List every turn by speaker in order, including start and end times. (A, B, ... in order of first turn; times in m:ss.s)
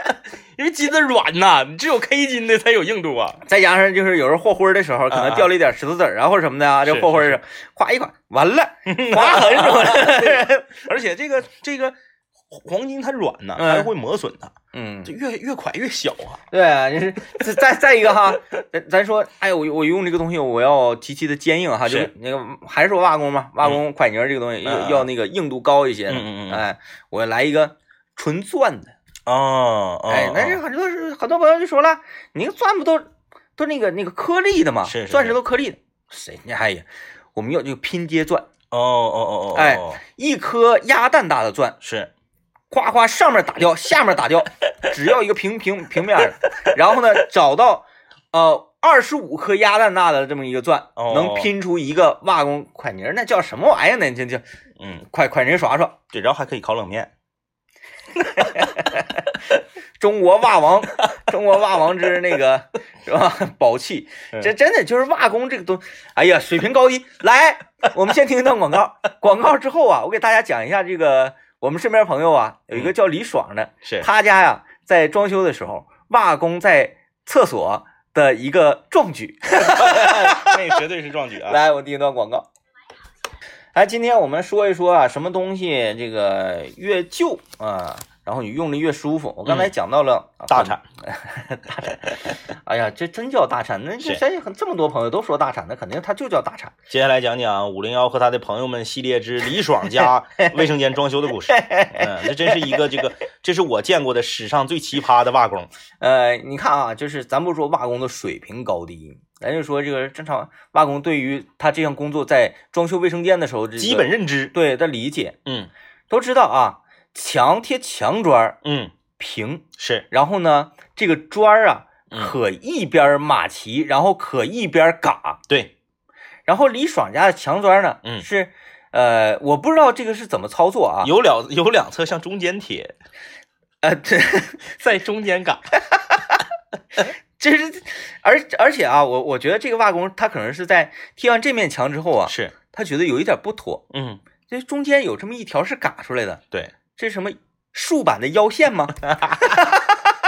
0:00.6-0:03.4 A
0:03.4-0:10.8 B
0:05.1-0:05.5 A
0:06.8-0:07.4 A
0:08.9-0:11.9 A
0:12.5-0:16.4 A
0:13.6-0:13.9 B
0:14.7-0:15.1 B
0:16.5-0:28.9 B
0:24.6-0:25.1 A
0:26.1-0:26.6 A
0:29.2-0:30.6 A
0:30.1-0:38.5 B
0:34.8-0:35.4 A
0:38.7-0:40.0 A
0:39.5-0:41.8 B
0:41.8-0:42.1 A
0:42.7-0:54.4 B
0:51.0-0:51.5 A
0:54.8-0:55.0 A
0:55.1-0:56.0 B
0:56.1-0:57.1 A
0:58.4-0:59.2 B
1:00.0-1:20.8 B
1:19.6-1:21.6 A
1:21.4-1:22.5 B
1:23.7-1:36.7 B
1:29.4-1:29.7 A
1:30.5-1:30.8 A
1:36.9-1:45.7 A
1:40.0-1:40.5 B
1:41.5-1:43.0 B
1:46.0-1:55.4 B
1:53.8-1:54.5 A
1:56.1-1:58.6 B
1:58.6-1:58.9 A
1:59.2-2:05.4 B
1:59.8-2:00.0 A
2:06.5-2:11.1 B
2:11.0-2:12.9 A
2:13.8-2:14.7 B
2:14.8-2:15.7 A
2:15.9-2:16.4 B
2:17.4-2:23.8 B
2:22.3-2:22.5 A
2:23.9-2:24.2 A
2:24.5-2:26.4 B
2:26.9-2:30.0 B
2:29.1-2:29.7 A